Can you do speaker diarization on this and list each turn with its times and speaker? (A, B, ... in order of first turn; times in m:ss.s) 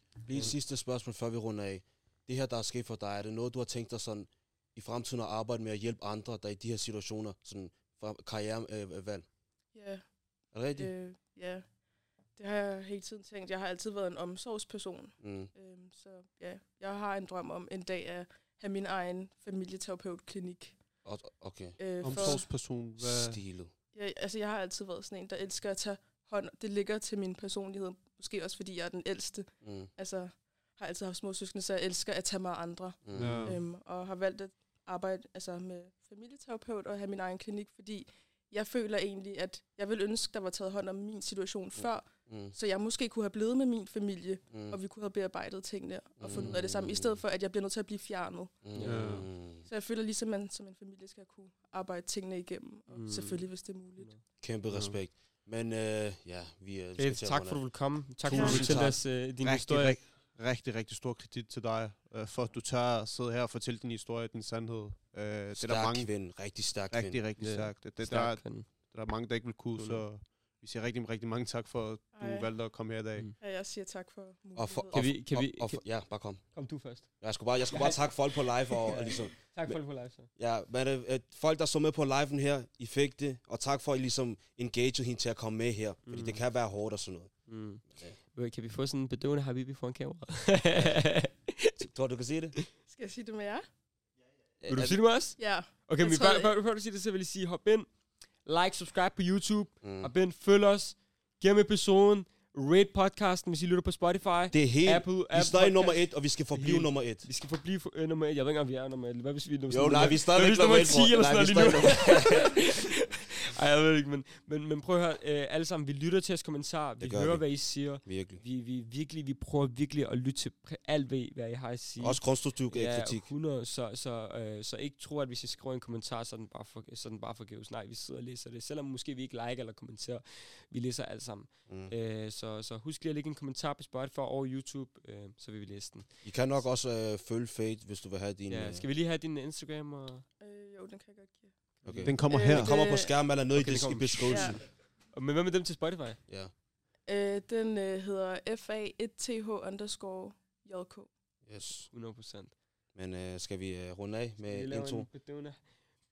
0:00.2-0:00.5 A
0:00.2-0:09.2 B
0:09.7-0:11.8 C
0:10.5-0:10.9 B
0:12.3-0:20.8 C
0:15.2-0:15.5 B
0:21.0-0:23.7 B
0:21.8-0:22.5 C
0:22.0-0:23.4 D
0:23.9-0:48.6 C
0:29.6-0:29.9 B
0:33.0-0:33.6 B
0:33.2-0:33.6 D
0:41.8-0:42.5 B
0:44.5-0:44.8 B
0:46.2-0:47.2 B
0:48.6-0:49.7 B
0:48.7-0:49.3 A
0:48.8-0:49.3 D
0:49.5-0:54.1 C
0:52.9-0:54.2 A
0:54.4-0:59.0 B
0:54.7-0:55.0 D
0:57.0-1:00.0 A
0:58.3-0:58.6 C
0:58.4-1:13.3 D
1:05.5-1:07.2 B
1:07.4-1:08.9 A
1:09.7-1:10.2 A
1:12.1-1:12.7 C
1:13.4-1:15.1 C
1:14.5-1:28.2 B
1:14.9-1:20.3 A
1:26.0-1:26.4 A
1:26.1-1:26.4 D
1:27.5-1:31.8 A
1:31.8-1:32.6 B
1:32.8-1:33.6 C
1:34.6-1:35.1 B
1:34.6-2:16.6 A
1:35.4-1:36.5 C
1:39.8-1:40.1 B
1:44.5-1:47.3 B
1:49.7-1:52.7 B
1:57.0-1:58.4 B
2:02.0-2:03.3 B
2:11.7-2:11.9 B
2:16.2-2:18.8 B
2:18.5-2:20.3 A
2:20.4-2:21.6 C
2:21.8-2:22.2 A
2:21.8-2:24.6 B
2:22.0-2:22.7 D
2:22.2-2:23.2 C
2:23.5-2:26.2 A
2:24.2-2:24.6 C
2:26.3-2:26.5 B
2:27.0-2:31.1 C
2:31.4-2:31.9 B
2:31.9-2:32.5 A
2:32.9-2:35.1 B
2:34.4-2:35.7 A